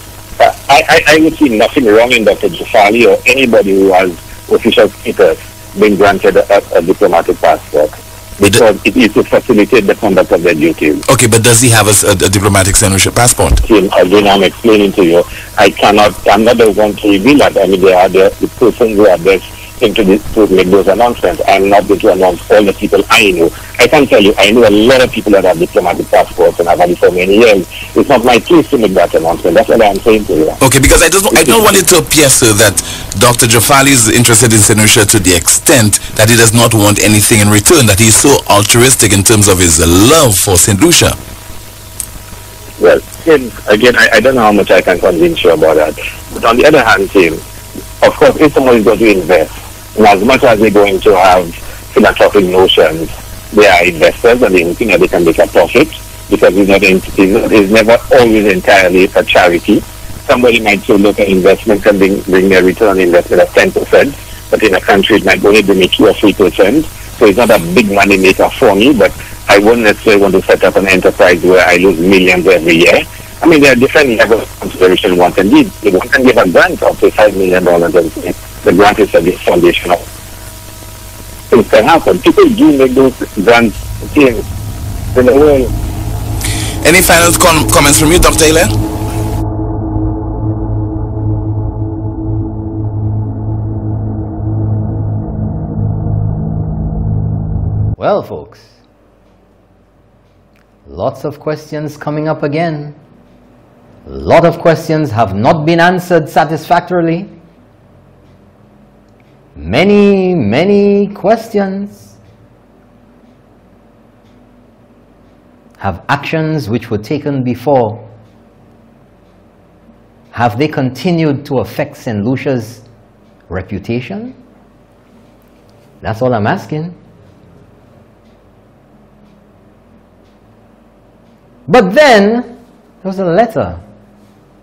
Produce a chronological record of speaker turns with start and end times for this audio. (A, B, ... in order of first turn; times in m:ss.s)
0:00.4-0:11.0 A
0:11.1-0:13.6 B
0:13.6-0:30.6 A
0:30.6-0:41.2 B
0:31.3-0:31.6 A
0:42.8-0:47.4 A
0:48.0-1:20.0 A
1:21.5-1:24.4 A
1:25.1-1:25.7 A
1:26.8-1:28.7 B
1:38.0-1:38.8 C
1:40.8-1:43.0 C
1:44.0-1:47.3 C
1:49.6-1:52.1 C
1:55.8-1:58.1 C
2:00.3-2:02.8 C
2:03.5-2:04.4 C
2:06.0-2:06.9 C
2:11.7-2:13.8 C